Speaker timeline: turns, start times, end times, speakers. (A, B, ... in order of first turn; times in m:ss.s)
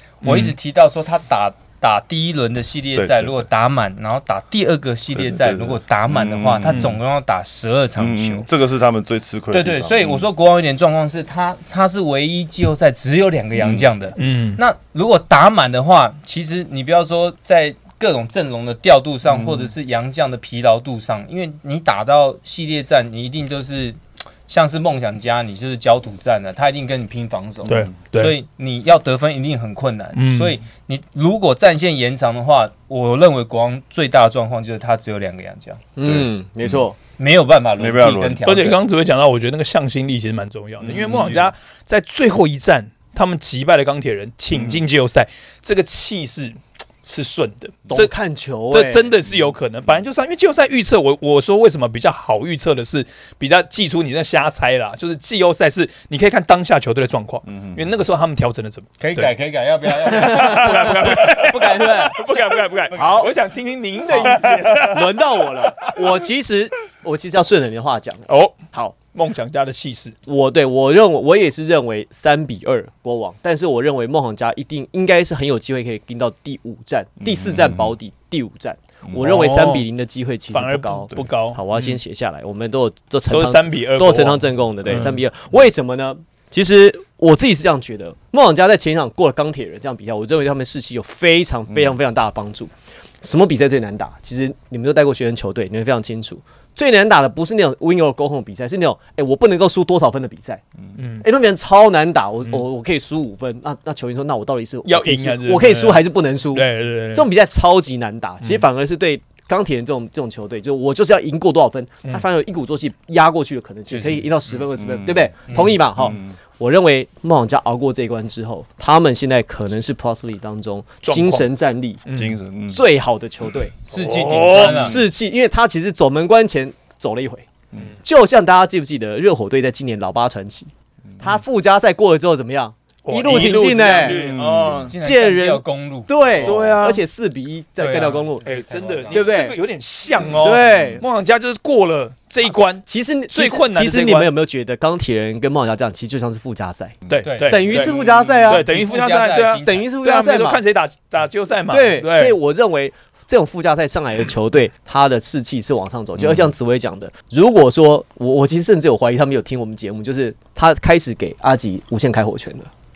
0:00.2-0:08.4 A
0:00.2-0:00.5 B
0:02.9-0:03.4 C
0:05.1-0:07.0 C
0:08.0-0:10.3 C
0:09.5-0:35.8 A
0:13.6-0:13.9 C
0:14.2-0:14.6 B
0:19.3-0:19.7 C
0:27.6-0:28.4 B
0:30.1-0:30.6 B
0:36.0-0:37.0 D
0:36.0-0:36.8 C
0:37.2-0:38.8 A
0:37.8-0:38.4 C
0:38.4-0:48.1 B
0:40.8-0:41.5 C
0:44.5-0:44.8 C
0:47.9-0:49.1 D
0:48.7-0:59.3 B
0:57.5-0:57.8 C
0:59.0-1:01.1 A
1:00.0-1:06.1 B
1:00.1-1:02.2 D
1:02.9-1:03.3 D
1:04.1-1:08.9 D
1:08.3-1:10.2 B
1:10.3-1:40.6 D
1:17.2-1:17.9 C
1:19.2-1:19.9 B
1:20.5-1:22.0 B
1:23.3-1:25.2 B
1:41.0-1:41.2 B
1:41.2-2:02.0 D
1:44.8-1:47.3 B
1:53.9-1:54.2 A
1:54.8-1:55.3 C
1:55.5-1:55.8 A
1:56.0-1:56.4 C
2:01.0-2:01.5 B
2:02.0-2:02.4 B
2:02.1-2:02.8 C
2:02.7-2:07.5 D
2:03.9-2:05.0 A
2:03.9-2:04.9 B
2:08.0-2:14.3 D
2:13.0-2:14.9 B
2:14.0-2:14.9 C
2:14.7-2:16.7 A
2:15.0-2:18.5 D
2:16.4-2:17.0 B
2:17.8-2:19.4 A
2:18.4-2:24.3 B
2:19.1-2:19.6 D
2:20.2-2:21.0 D
2:22.4-2:28.7 D
2:27.1-2:32.4 B
2:27.2-2:27.8 A
2:28.0-2:28.3 C
2:28.5-2:29.9 A
2:29.6-2:30.6 D
2:31.7-2:42.7 D